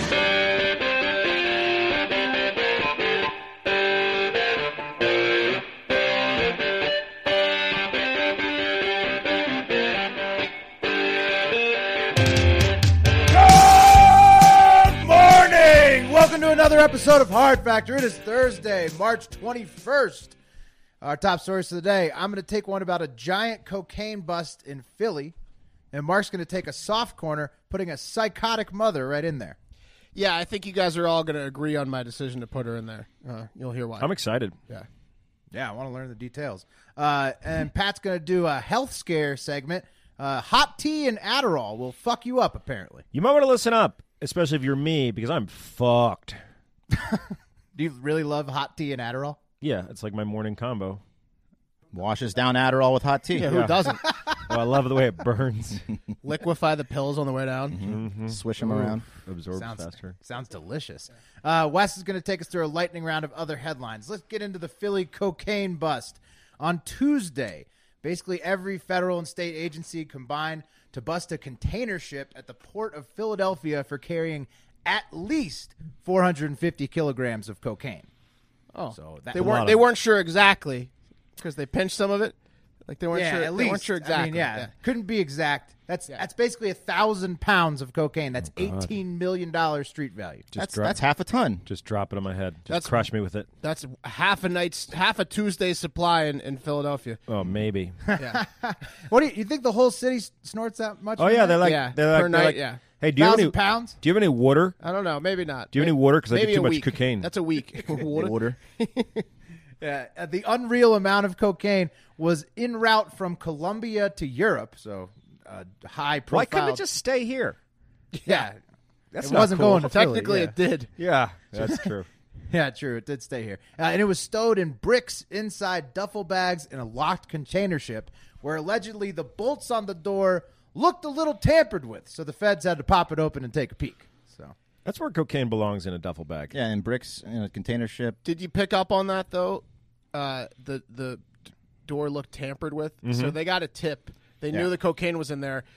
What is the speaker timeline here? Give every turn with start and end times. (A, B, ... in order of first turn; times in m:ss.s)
0:13.3-0:20.3 A
0:21.0-0:25.3 A
0:25.9-0:29.6 A
0:30.1-0:34.1 B
0:34.0-0:34.5 C
0:35.5-0:43.0 A
0:43.1-0:46.4 C
0:46.9-0:49.4 A
0:49.6-0:51.0 C
0:51.9-0:53.6 D
0:53.3-0:54.1 B
0:53.5-0:55.8 C
0:54.0-0:54.4 A
0:56.2-0:57.8 B
0:57.7-0:59.1 D
0:57.8-1:00.1 C
0:59.5-1:18.1 A
1:18.7-1:22.3 B
1:18.9-1:19.8 A
1:19.3-1:19.8 C
1:22.9-1:24.7 B
1:23.1-1:30.5 A
1:28.4-1:28.9 C
1:30.5-1:31.0 C
1:30.6-1:31.6 D
1:31.6-1:33.5 C
1:32.7-1:33.1 B
1:33.6-1:37.2 B
1:37.3-1:38.0 C
1:38.1-1:41.6 A
1:38.2-1:38.4 B
1:41.2-1:44.8 C
1:41.6-1:42.8 B
1:43.1-1:44.0 A
1:44.8-1:49.2 B
1:45.7-1:47.3 C
1:47.8-1:48.6 D
1:49.8-1:56.8 A
1:56.3-1:57.6 C
1:58.1-1:58.4 B
1:58.2-1:58.6 A
1:59.1-1:59.9 C
1:59.2-2:00.5 A
1:59.3-2:00.9 B
2:01.0-2:02.1 C
2:01.6-2:01.9 A
2:02.5-2:14.5 A
2:14.8-2:16.5 C
2:16.5-2:18.2 D
2:18.2-2:21.2 B
2:21.8-2:25.6 B
2:23.0-2:23.4 C